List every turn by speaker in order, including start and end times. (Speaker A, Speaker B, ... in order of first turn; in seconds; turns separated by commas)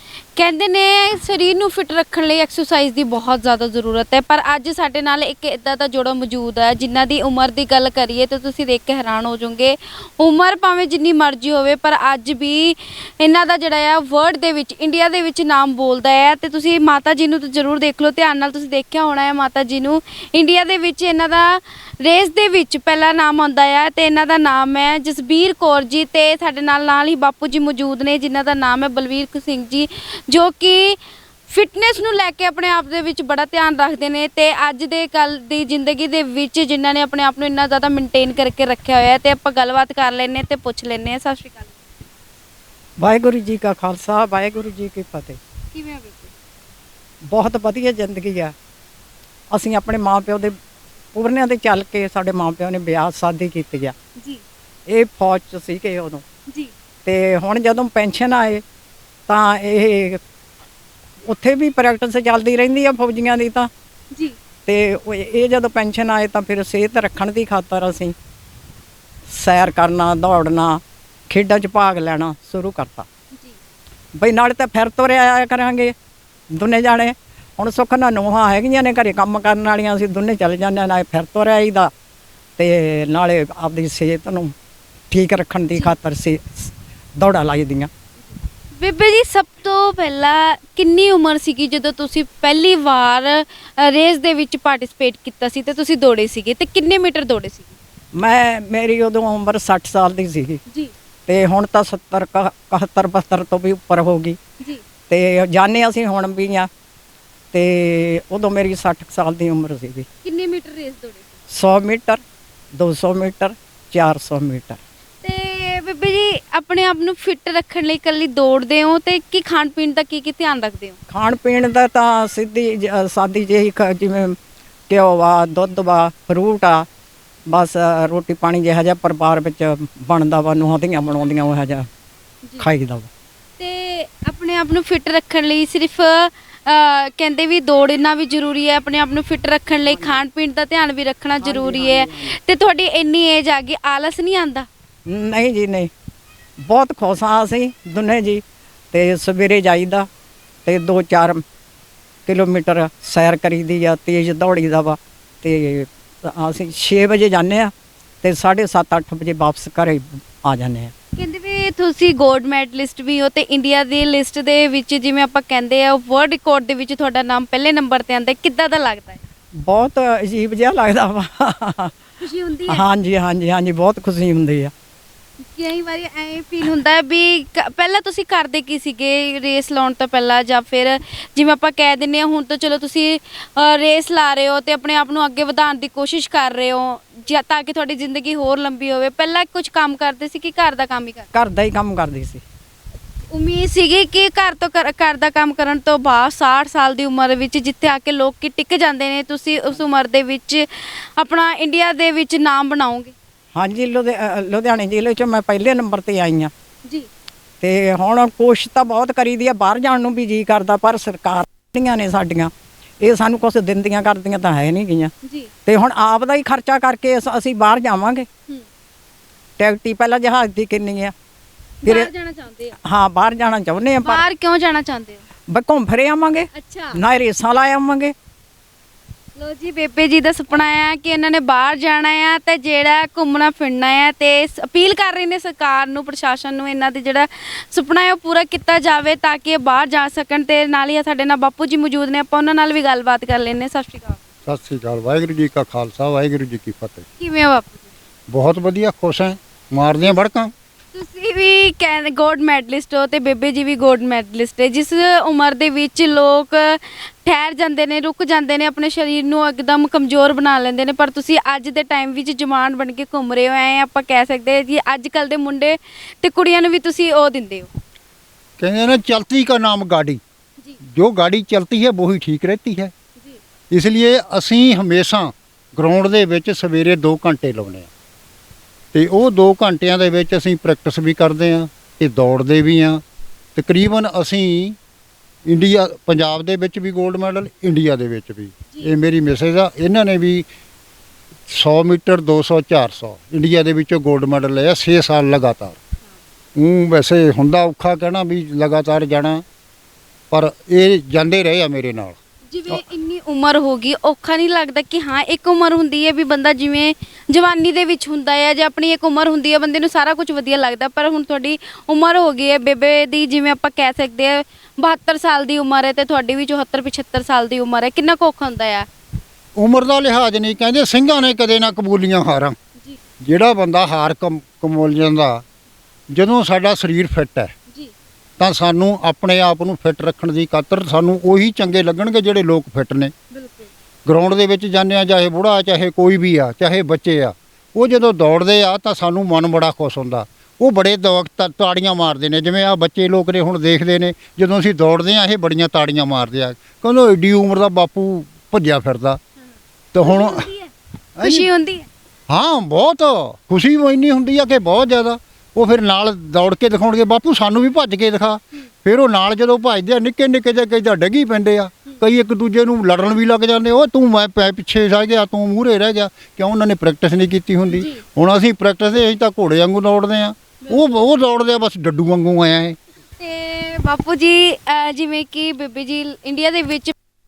Speaker A: 0.3-41.8, Speaker B: 43.0-45.4, Speaker A: 45.7-46.3, Speaker B: 47.3-48.5, Speaker B: 49.5-50.5, Speaker B: 51.1-53.9, Speaker B: 54.9-56.2, Speaker A: 56.5-56.7, Speaker B: 57.0-58.6, Speaker B: 59.3-60.2, Speaker B: 61.3-63.7, Speaker B: 64.7-68.1, Speaker B: 69.3-73.1, Speaker B: 74.2-75.9, Speaker B: 76.5-81.9, Speaker B: 82.6-84.5, Speaker B: 85.1-87.9, Speaker A: 88.8-97.7, Speaker B: 98.1-100.6, Speaker B: 101.3-104.4, Speaker B: 105.1-106.7, Speaker B: 107.5-110.1, Speaker A: 110.2-111.3, Speaker B: 111.5-112.2, Speaker B: 112.7-114.8, Speaker A: 115.2-121.0, Speaker B: 121.1-124.4, Speaker B: 124.9-126.8, Speaker B: 127.5-131.9, Speaker B: 132.6-133.1, Speaker A: 133.6-144.7, Speaker B: 139.8-140.2, Speaker B: 141.4-142.3, Speaker B: 145.1-145.9, Speaker B: 146.6-150.1, Speaker B: 150.7-151.4, Speaker B: 152.3-160.9, Speaker A: 161.2-169.2, Speaker B: 169.6-171.9, Speaker A: 172.2-172.8, Speaker B: 172.7-174.7, Speaker A: 175.4-191.3, Speaker B: 191.3-192.4, Speaker A: 193.3-203.1, Speaker B: 203.5-206.5, Speaker B: 207.6-215.1, Speaker A: 215.2-215.5, Speaker B: 215.6-218.3, Speaker B: 219.6-221.1, Speaker A: 221.8-222.8, Speaker B: 221.8-222.1, Speaker B: 222.8-224.3, Speaker A: 224.0-225.2, Speaker B: 225.5-228.1, Speaker A: 226.5-227.0, Speaker A: 229.3-244.2, Speaker C: 244.4-247.0, Speaker A: 247.2-247.9, Speaker C: 248.3-250.5, Speaker A: 250.9-267.7, Speaker C: 268.6-270.2, Speaker C: 270.8-272.9, Speaker C: 273.7-277.9, Speaker C: 278.9-283.0, Speaker C: 283.5-284.8, Speaker C: 285.4-290.5, Speaker C: 291.5-295.8, Speaker C: 296.6-299.4, Speaker C: 300.3-302.2, Speaker A: 302.5-318.9, Speaker C: 319.6-322.6, Speaker C: 323.2-325.4, Speaker C: 326.1-327.5, Speaker C: 328.4-333.1, Speaker A: 333.3-333.7, Speaker C: 334.1-349.2, Speaker C: 349.9-350.5, Speaker A: 350.0-351.9, Speaker C: 351.2-351.5, Speaker C: 352.3-372.8, Speaker A: 367.7-368.0, Speaker A: 373.2-376.9